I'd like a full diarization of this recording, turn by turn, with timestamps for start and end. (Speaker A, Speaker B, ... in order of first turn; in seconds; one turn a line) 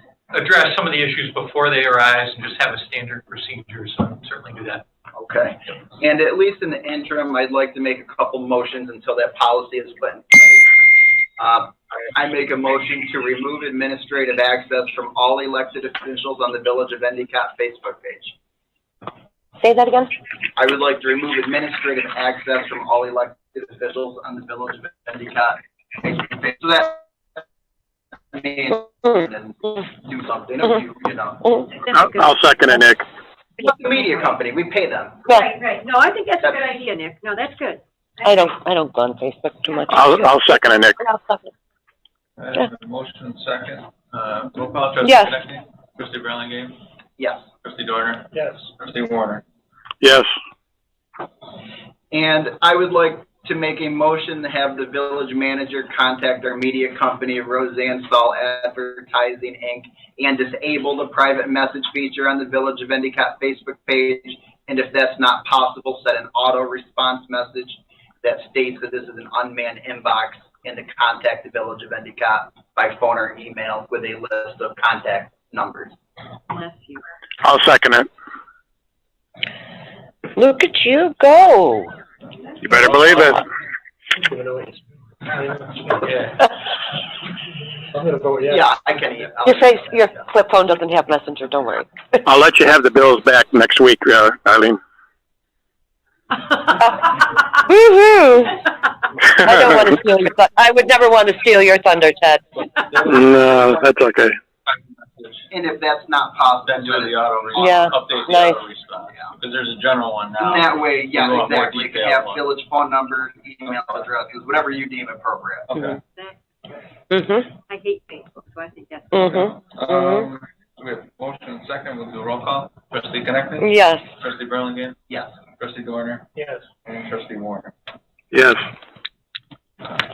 Speaker A: 0.3-4.8
Speaker B: 5.1-10.7
Speaker B: 11.4-18.3
Speaker C: 19.6-20.1
Speaker B: 20.6-27.4
Speaker B: 28.3-31.9
Speaker D: 31.9-33.0
Speaker B: 33.6-35.3
Speaker E: 35.3-37.8
Speaker C: 38.2-40.5
Speaker D: 39.9-41.0
Speaker C: 41.0-41.5
Speaker F: 42.4-46.8
Speaker C: 45.0-45.4
Speaker B: 47.2-47.5
Speaker F: 47.6-49.4
Speaker G: 48.3-48.7
Speaker D: 50.0-50.3
Speaker B: 52.1-75.9
Speaker E: 76.5-77.0
Speaker D: 77.4-78.1
Speaker C: 80.3-81.9
Speaker D: 82.6-83.4
Speaker G: 82.7-83.4
Speaker G: 84.2-86.1
Speaker G: 87.9-88.6
Speaker B: 88.5-90.2
Speaker C: 89.4-92.3
Speaker D: 92.2-94.8
Speaker C: 96.7-98.6
Speaker C: 99.3-102.5
Speaker F: 102.8-103.7
Speaker D: 103.0-104.4
Speaker F: 104.7-105.5
Speaker B: 105.5-108.4
Speaker F: 106.6-112.5
Speaker C: 107.5-108.6
Speaker B: 110.4-115.7
Speaker F: 113.7-114.1
Speaker F: 115.7-116.0
Speaker C: 117.1-117.5
Speaker E: 117.7-119.4
Speaker C: 119.1-120.3
Speaker F: 119.2-126.3
Speaker C: 123.6-124.0
Speaker B: 125.1-125.3
Speaker G: 126.3-126.6
Speaker F: 126.8-127.7
Speaker D: 128.3-128.6